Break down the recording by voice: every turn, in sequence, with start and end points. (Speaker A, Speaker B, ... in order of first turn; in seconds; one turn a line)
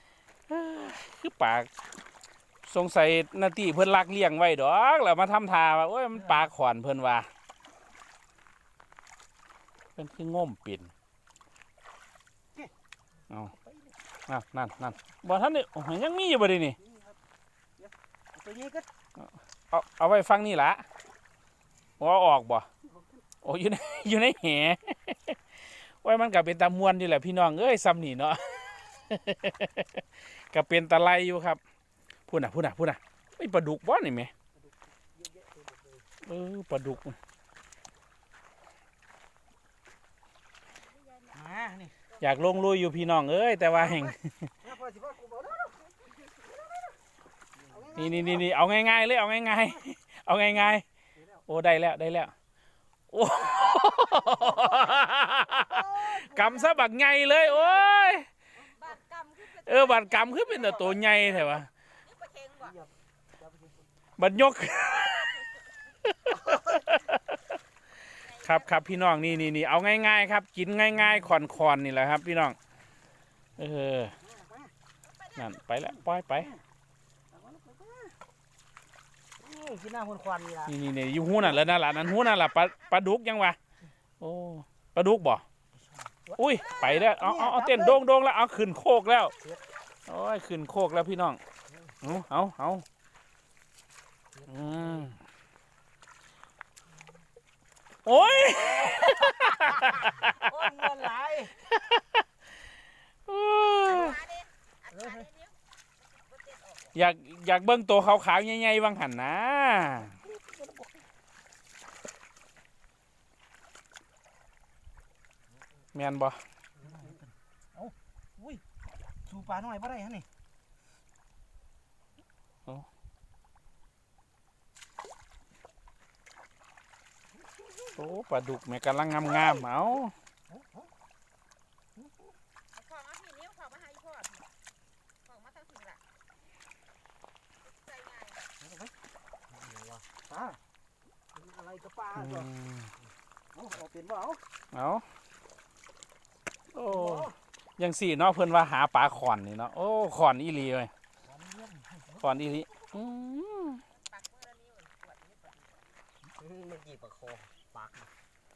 Speaker A: 0.5-1.7
Speaker A: 2.6-7.3
Speaker A: 10.0-10.9
Speaker B: 13.7-13.9
Speaker A: 14.3-16.8
Speaker B: 16.8-17.2
Speaker B: 17.8-18.9
Speaker A: 19.2-20.9
Speaker A: 22.0-22.7
Speaker A: 23.4-31.6
Speaker A: 32.3-34.3
Speaker B: 34.6-36.0
Speaker A: 36.2-37.2
Speaker C: 41.0-41.4
Speaker B: 41.3-42.0
Speaker A: 42.2-44.5
Speaker B: 43.8-46.9
Speaker B: 47.7-48.5
Speaker A: 48.0-50.9
Speaker A: 51.5-52.3
Speaker A: 53.1-58.3
Speaker B: 55.6-56.6
Speaker C: 58.7-61.2
Speaker A: 59.6-61.7
Speaker C: 62.0-62.8
Speaker B: 62.6-63.8
Speaker A: 64.2-65.5
Speaker A: 66.0-67.4
Speaker C: 68.2-69.5
Speaker A: 68.4-72.6
Speaker A: 73.6-74.2
Speaker B: 74.2-74.7
Speaker C: 75.0-75.6
Speaker A: 75.4-76.5
Speaker B: 77.3-78.2
Speaker B: 79.4-80.7
Speaker A: 80.7-83.6
Speaker C: 81.9-82.9
Speaker A: 84.2-85.4
Speaker B: 86.2-88.0
Speaker A: 86.4-89.4
Speaker C: 86.6-87.0
Speaker A: 90.1-91.4
Speaker A: 92.0-92.8
Speaker B: 94.3-95.1
Speaker A: 94.5-95.2
Speaker A: 98.0-100.5
Speaker B: 98.5-101.7
Speaker A: 101.7-102.2
Speaker A: 103.3-104.2
Speaker C: 103.9-107.0
Speaker B: 104.9-105.3
Speaker A: 106.9-110.2
Speaker B: 110.2-110.9
Speaker A: 116.0-116.4
Speaker B: 116.8-118.6
Speaker B: 119.2-120.3
Speaker A: 128.0-130.1
Speaker B: 130.5-130.9
Speaker C: 132.7-134.5
Speaker C: 135.2-136.0
Speaker C: 137.7-138.4
Speaker B: 138.6-138.9
Speaker B: 139.6-140.6
Speaker B: 141.4-142.5
Speaker A: 142.2-142.9
Speaker B: 143.5-144.4
Speaker A: 144.7-145.1
Speaker A: 146.7-150.9
Speaker B: 146.9-147.3
Speaker B: 151.3-152.4
Speaker A: 152.2-153.8
Speaker C: 153.9-155.8
Speaker B: 156.4-158.1